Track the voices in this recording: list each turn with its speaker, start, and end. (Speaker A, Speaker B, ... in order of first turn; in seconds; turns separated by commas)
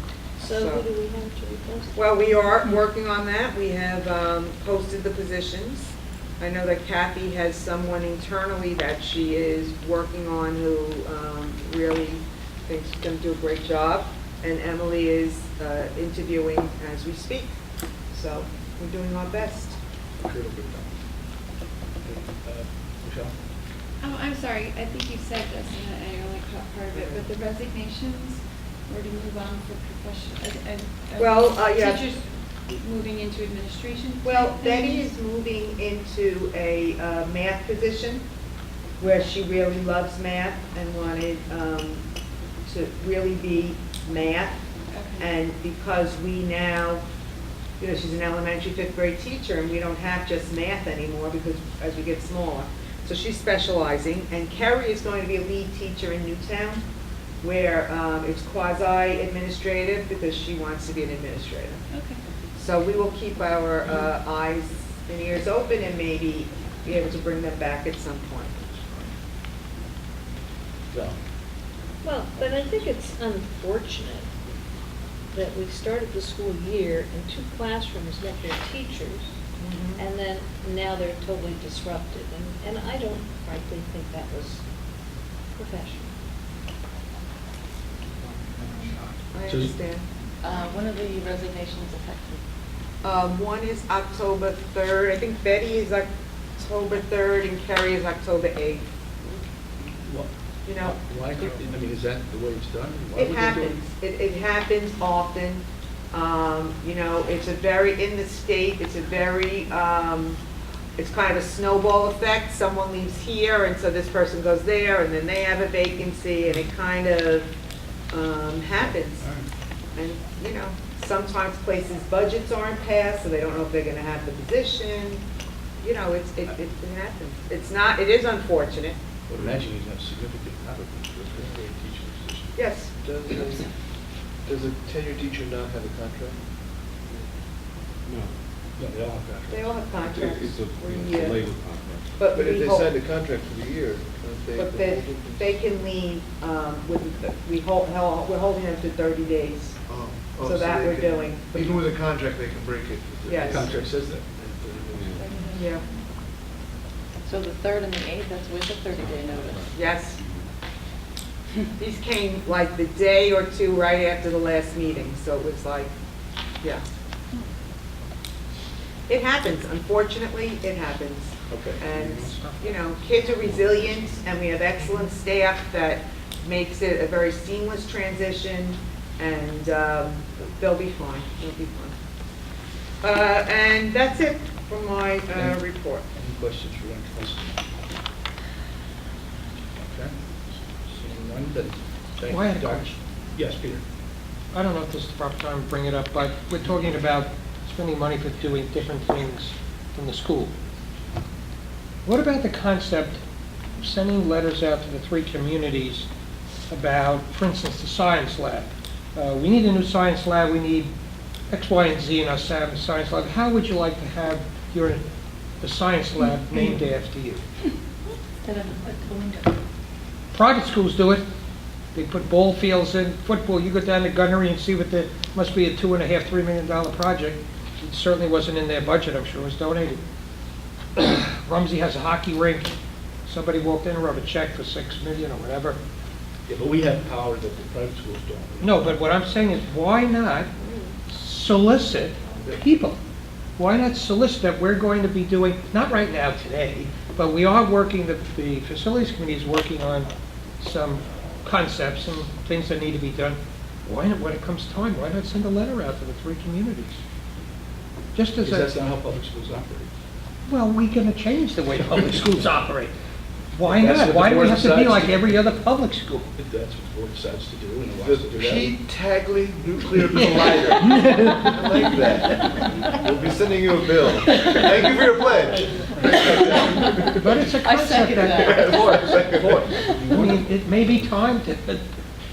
Speaker A: 0.4-1.9, Speaker B: 0.4-0.9, Speaker B: 1.9-17.6, Speaker B: 18.1-19.8, Speaker C: 20.2-20.9, Speaker C: 22.0-23.3, Speaker D: 24.0-35.1, Speaker B: 26.9-27.2, Speaker B: 31.2-32.1, Speaker B: 34.2-38.2, Speaker B: 39.0-42.0, Speaker B: 42.6-44.6, Speaker D: 44.9-45.3, Speaker B: 45.2-47.0, Speaker B: 47.8-56.8, Speaker B: 57.4-61.8, Speaker D: 61.9-62.2, Speaker B: 62.5-69.1, Speaker C: 70.9-71.2, Speaker A: 72.0-74.3, Speaker A: 75.3-79.3, Speaker B: 79.6-80.0, Speaker A: 80.0-84.6, Speaker A: 85.5-86.1, Speaker D: 88.6-89.0, Speaker E: 88.6-89.0, Speaker B: 89.3-90.1, Speaker C: 89.5-89.7, Speaker F: 90.4-92.4, Speaker B: 93.0-98.8, Speaker C: 99.8-103.8, Speaker B: 100.6-101.0, Speaker B: 103.1-110.4, Speaker B: 111.0-117.5, Speaker B: 118.1-119.3, Speaker C: 118.8-119.5, Speaker B: 120.0-125.2, Speaker B: 125.8-128.9, Speaker C: 129.3-132.6, Speaker B: 132.6-132.9, Speaker G: 132.9-133.7, Speaker G: 134.4-136.4, Speaker H: 138.1-138.3, Speaker C: 138.8-140.0, Speaker B: 139.5-141.5, Speaker H: 140.0-142.2, Speaker B: 142.2-142.9, Speaker G: 142.3-145.6, Speaker B: 144.6-149.8, Speaker G: 149.8-153.8, Speaker B: 150.4-151.8, Speaker B: 153.2-153.7, Speaker C: 153.3-154.7, Speaker G: 154.8-155.0, Speaker H: 154.9-155.3, Speaker D: 155.1-156.0, Speaker B: 155.5-155.8, Speaker F: 157.3-159.7, Speaker H: 159.0-160.5, Speaker B: 159.7-160.2, Speaker B: 161.8-165.9, Speaker B: 169.1-181.9, Speaker C: 171.5-171.9, Speaker E: 172.1-172.6, Speaker B: 183.0-186.0, Speaker C: 185.3-187.6, Speaker C: 189.8-190.2, Speaker C: 190.7-193.8, Speaker E: 192.3-192.9, Speaker E: 194.5-200.5, Speaker E: 202.0-203.2, Speaker E: 203.8-206.1, Speaker E: 206.7-210.9, Speaker E: 211.5-215.0, Speaker E: 215.6-217.4, Speaker F: 218.4-219.5, Speaker E: 220.3-221.2, Speaker E: 221.9-230.0, Speaker E: 230.9-232.7, Speaker E: 233.2-235.8, Speaker C: 236.5-238.9, Speaker E: 238.6-240.5, Speaker A: 240.6-240.9, Speaker E: 241.1-243.0, Speaker E: 243.6-250.1, Speaker E: 250.6-257.0, Speaker E: 258.1-258.7, Speaker C: 258.4-259.9, Speaker E: 260.5-262.9, Speaker E: 263.5-266.3, Speaker C: 263.6-265.4, Speaker C: 266.4-268.8, Speaker G: 268.0-277.5, Speaker E: 270.1-271.5, Speaker E: 277.1-278.6, Speaker F: 277.6-279.2, Speaker G: 278.4-279.8, Speaker C: 278.9-281.2, Speaker E: 280.1-281.8